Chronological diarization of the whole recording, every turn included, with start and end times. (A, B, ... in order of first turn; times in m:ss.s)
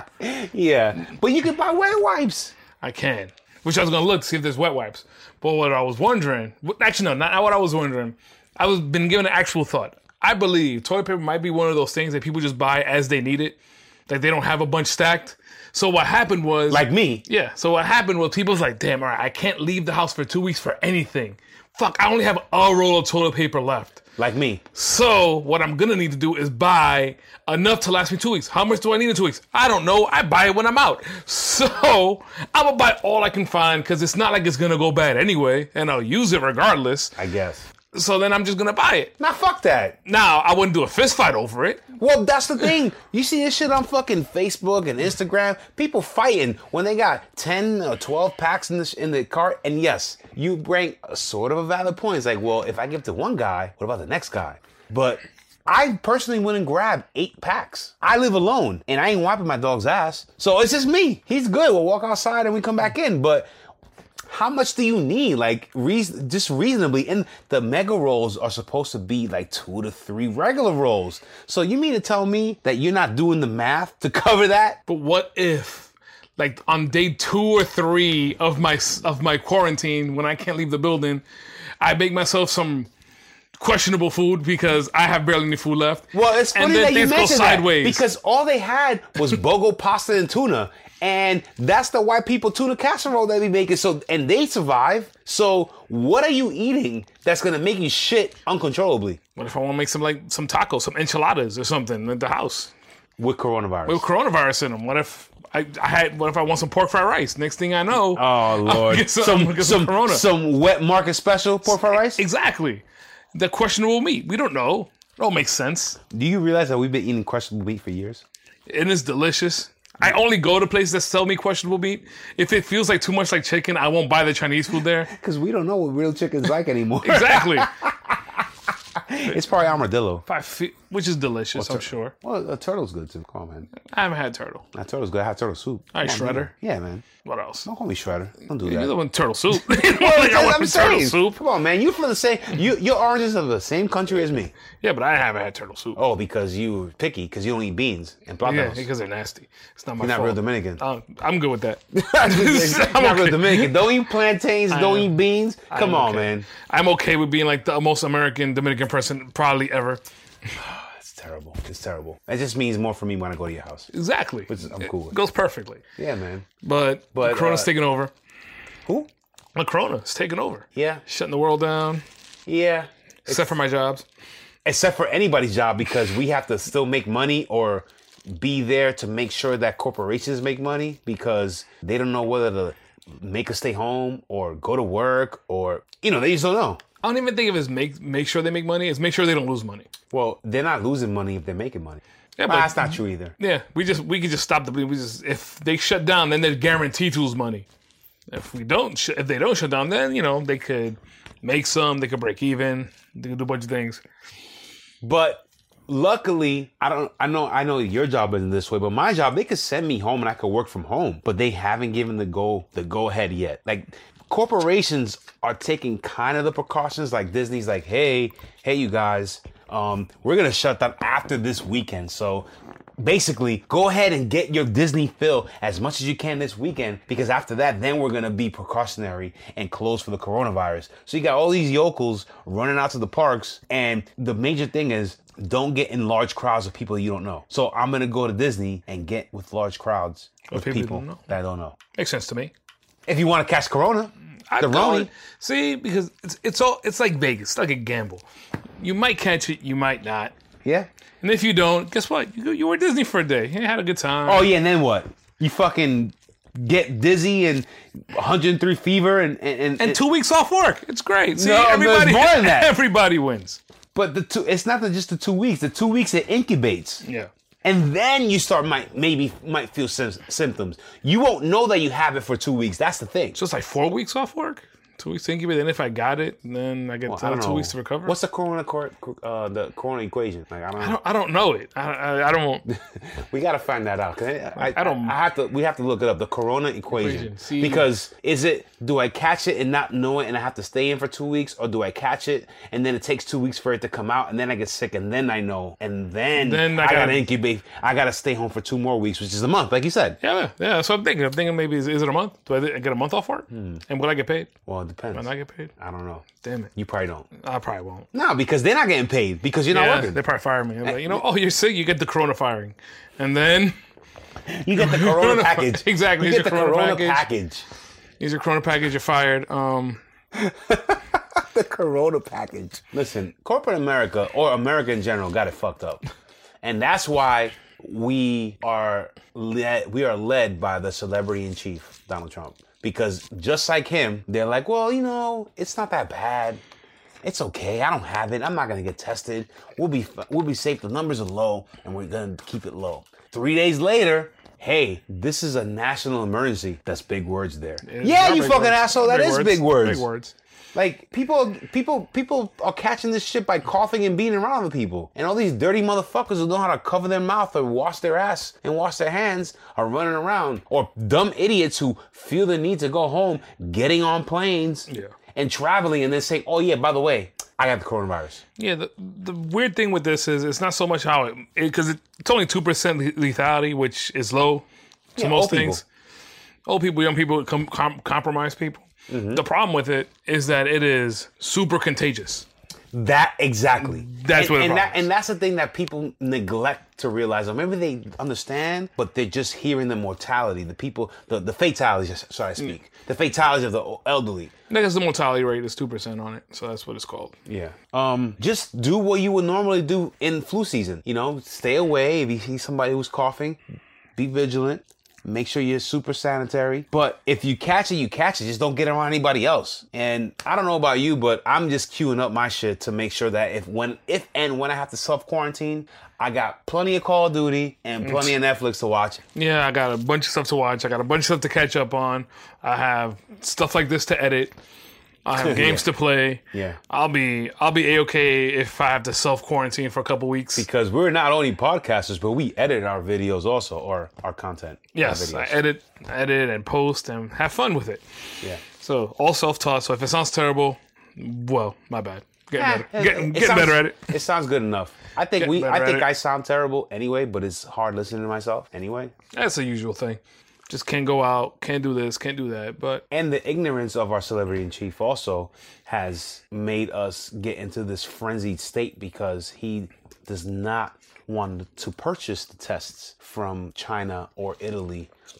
0:00.2-0:02.5 A
0:02.8-0:24.0 B
0:16.7-0:17.2 A
0:24.2-0:24.6 A
0:24.7-0:37.2 B
0:37.2-0:37.7 A
0:37.9-0:39.1 B
0:39.2-0:40.0 A
0:40.0-0:41.9 B
0:42.0-1:03.5 A
1:04.3-1:14.8 A
1:14.9-1:21.2 B
1:21.8-1:22.9 B
1:23.6-1:28.0 B
1:26.1-1:39.2 A
1:39.4-1:42.7 B
1:43.2-1:44.0 A
1:43.8-1:50.2 B
1:48.0-1:52.2 A
1:51.6-1:52.8 B
1:53.3-1:56.0 B
1:56.1-1:58.2 A
1:58.7-2:05.1 B
2:05.1-2:10.2 A
2:07.0-2:07.7 B
2:10.2-2:12.1 B
2:11.5-2:13.7 A
2:13.8-2:14.6 B
2:14.7-2:17.0 A
2:15.9-2:16.5 B
2:17.2-2:17.7 B
2:17.6-2:18.9 A
2:18.6-2:21.4 B
2:19.5-2:24.5 A
2:24.8-2:26.0 B
2:25.9-2:28.9 A
2:28.4-2:33.8 B
2:30.0-2:30.8 A
2:31.9-2:36.5 A
2:34.7-2:35.1 B
2:35.7-2:40.0 B
2:40.5-2:43.9 A
2:43.9-2:45.8 B
2:44.5-2:45.2 A
2:46.0-2:46.4 A
2:46.6-2:48.1 B
2:47.1-2:47.7 A
2:49.5-2:52.0 B
2:50.7-2:51.0 A
2:52.4-2:53.5 A
2:53.3-2:54.0 B
2:54.6-3:06.8 A
3:07.0-3:09.9 B
3:10.1-3:13.3 A
3:12.4-3:17.7 B
3:18.3-3:24.0 B
3:25.0-3:42.4 A
3:43.0-4:01.8 A
4:00.5-4:01.3 B
4:01.9-4:02.5 B
4:03.1-4:05.1 A
4:04.5-4:08.2 B
4:08.8-4:10.3 B
4:11.2-4:14.5 B
4:14.2-4:20.0 A
4:19.8-4:23.6 B
4:21.3-4:22.7 A
4:23.9-4:27.0 A
4:27.0-4:27.3 B
4:27.6-4:33.4 A
4:33.3-4:38.2 B
4:37.1-4:41.0 A
4:40.8-4:42.6 B
4:42.7-5:00.2 A
4:44.6-4:45.1 B
4:46.9-4:47.9 B
4:56.4-4:57.2 B
5:00.2-5:04.5 B
5:03.5-5:03.8 A
5:04.7-5:07.3 A
5:05.1-5:05.7 B
5:06.3-5:06.7 B
5:07.4-5:08.1 B
5:08.1-5:10.2 A
5:09.7-5:13.8 B
5:10.8-5:11.2 A
5:14.5-5:17.6 A
5:14.8-5:17.2 B
5:18.2-5:20.0 B
5:20.3-5:26.0 A
5:26.6-5:36.6 A
5:37.2-5:50.0 A
5:47.8-5:50.3 B
5:50.7-6:08.4 A
6:08.6-6:14.6 B
6:15.2-6:15.8 A
6:15.2-6:15.8 B
6:16.6-6:22.4 B
6:19.1-6:19.4 A
6:22.9-6:34.5 A
6:23.8-6:25.0 B
6:34.7-6:37.3 B
6:37.5-6:43.6 A
6:44.2-6:59.2 A
6:58.0-6:58.3 B
6:59.3-7:04.6 B
7:05.2-7:10.7 B
7:05.4-7:05.8 A
7:06.5-7:06.8 A
7:10.6-7:15.6 A
7:14.9-7:18.0 B
7:18.6-7:24.1 B
7:22.6-7:29.1 A
7:25.4-7:26.1 B
7:29.3-7:33.0 B
7:33.1-7:45.1 A